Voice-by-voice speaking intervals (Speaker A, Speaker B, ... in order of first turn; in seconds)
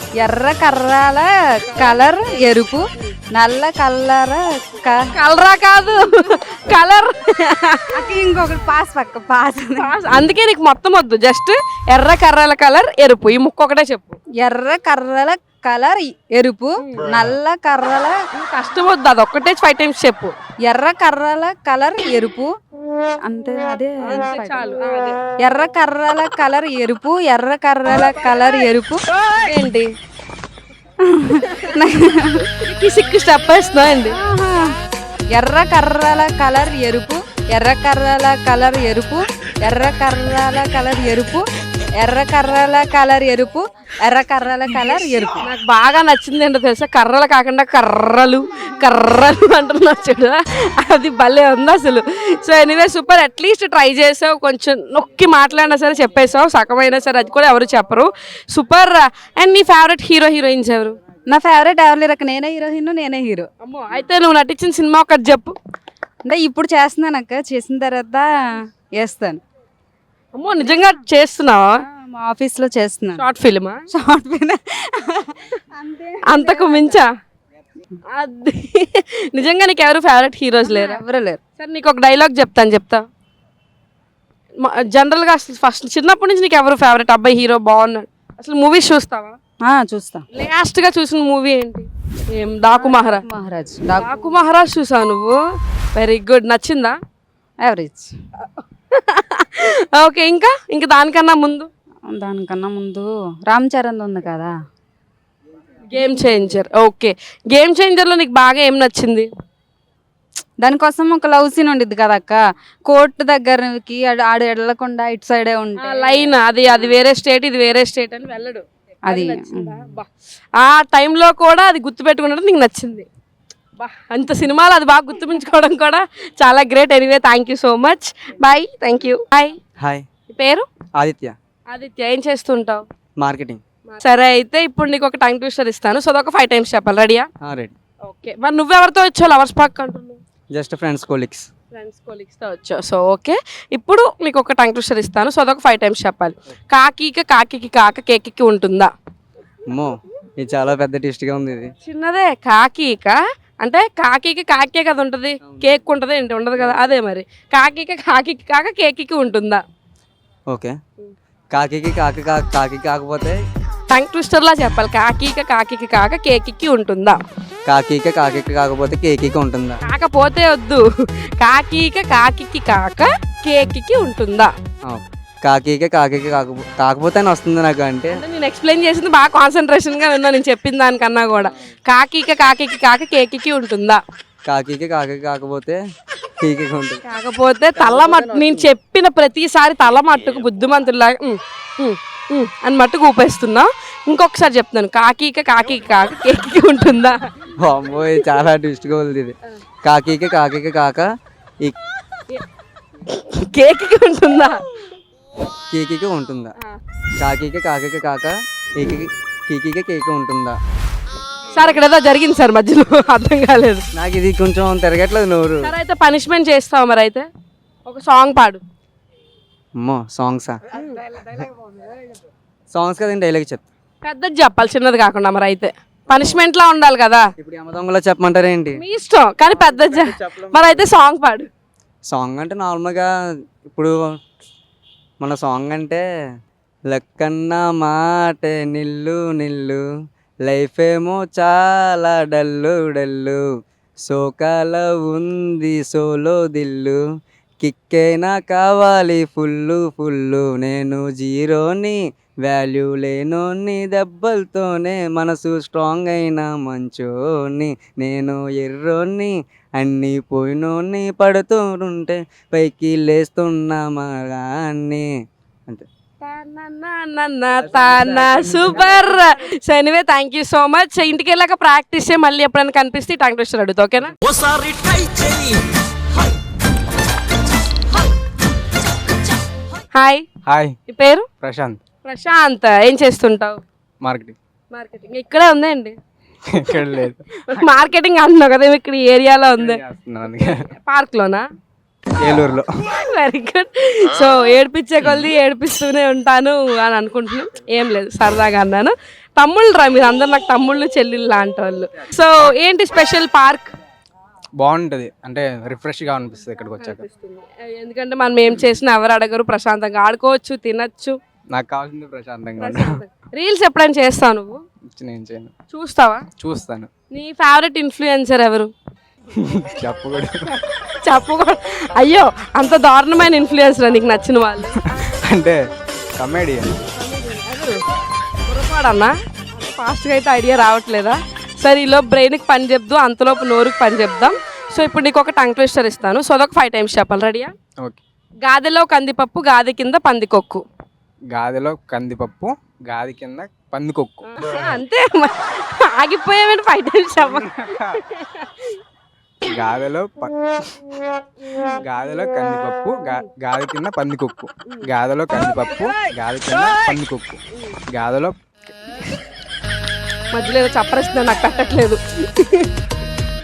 Speaker A: 0.2-5.1, 7.9-9.9, 14.4-18.2, 20.6-22.5, 23.2-24.7, 25.4-29.0, 31.0-32.5, 34.1-34.8, 35.3-41.5, 42.0-45.4, 61.3-63.5, 66.2-69.4, 70.6-70.9, 71.8-73.2, 73.9-77.0, 80.6-81.4, 89.6-90.2, 92.7-94.2, 97.6-98.1, 102.1-104.5, 106.0-106.3, 110.6-116.3, 119.1-119.8
Speaker B: 1.7-2.4, 5.1-7.9, 9.8-14.2, 16.8-17.1, 18.3-20.3, 24.0-25.2, 29.2-29.9, 31.4-31.8, 32.6-34.2, 45.4-61.0, 63.6-65.5, 70.3-71.8, 73.2-73.8, 76.2-77.1, 78.1-81.0, 81.6-83.0, 84.6-89.4, 90.3-93.2, 94.0-95.3, 96.0-97.0, 98.9-101.7, 105.9-109.3, 115.8-123.1, 123.8-129.6, 130.3-130.7, 131.7-132.8, 133.9-137.3, 138.1-140.2, 141.7-148.9, 151.8-159.6, 163.9-167.2, 169.8-170.8, 171.4-174.5, 178.1-184.0, 187.0-197.2, 203.1-204.6, 211.5-213.8, 215.6-217.2, 217.8-218.6, 220.7-221.0, 224.0-227.3, 228.8-231.5, 266.2-274.1, 279.9-280.2, 280.9-281.3, 282.0-283.6, 284.7-286.0, 287.4-289.8, 290.4-291.4, 292.9-303.7, 306.8-311.2, 312.6-314.6, 315.7-316.2, 317.1-318.7, 320.5-325.0, 326.9-327.8, 328.5-337.5, 338.4-340.6, 344.2-348.6, 360.3-362.7
Speaker C: 129.8-130.0, 131.0-131.3, 133.2-133.6, 137.4-137.7, 140.5-141.5, 149.7-151.7, 160.5-160.7, 161.5-163.4, 167.7-169.8, 174.8-178.2, 184.5-185.8, 186.4-187.0, 197.6-201.1, 205.7-206.5, 207.2-210.6, 213.9-215.7, 219.8-220.6, 222.7-223.6, 227.4-228.8, 232.1-233.1, 233.7-233.9, 235.2-236.0, 236.9-239.8, 240.5-243.4, 244.1-247.0, 247.6-265.1, 274.3-275.6
Speaker D: 267.7-269.0, 280.4-280.8, 281.4-281.8, 284.0-284.4, 286.5-287.7, 289.6-290.6, 292.2-292.7, 295.0-295.3, 304.6-307.0, 311.5-313.0, 314.9-315.5, 316.4-316.9, 319.4-320.4, 324.9-325.6, 326.2-326.8, 341.3-344.2, 347.2-348.0, 349.5-350.3, 351.8-357.4, 357.9-358.4